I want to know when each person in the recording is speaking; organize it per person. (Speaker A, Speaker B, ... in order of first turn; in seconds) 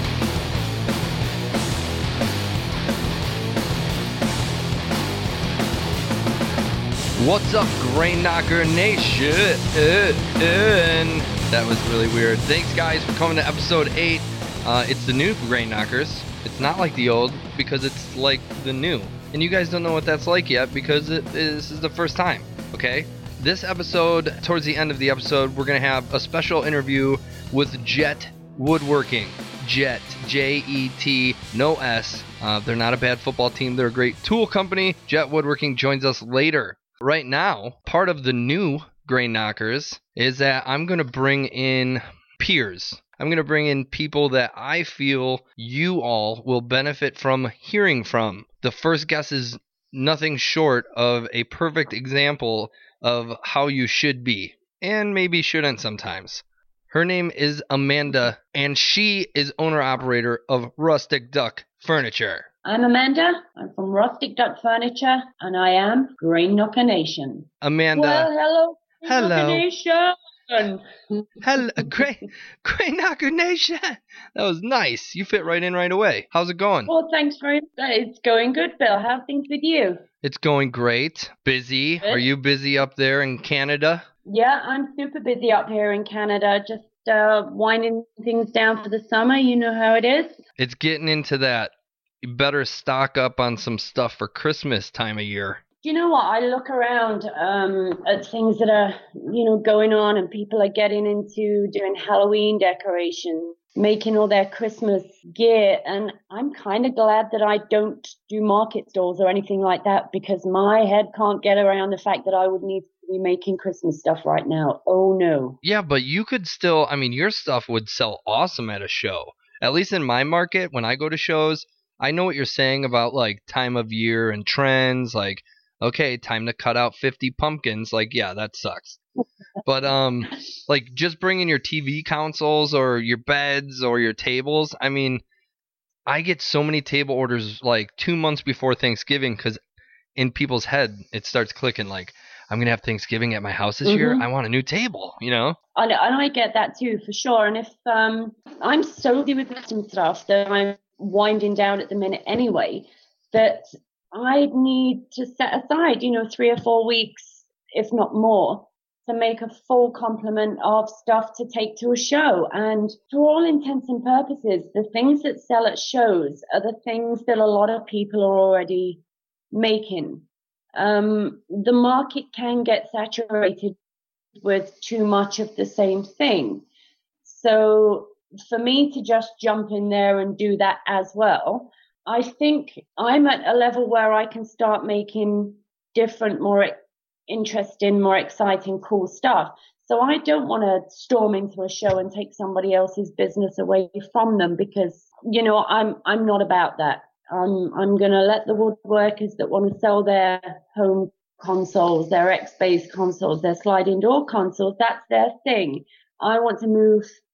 Speaker A: 7.2-62.5, 67.6-68.3, 69.0-69.6, 71.4-76.9, 80.2-84.0, 90.6-95.6, 115.6-129.0, 129.6-135.2, 136.1-139.6, 140.2-145.6
Speaker B: 62.6-71.9, 76.9-80.0, 84.2-90.4, 95.8-115.6, 143.8-144.2, 145.8-169.0, 169.5-173.7, 174.4-176.6, 177.2-186.8, 187.3-207.1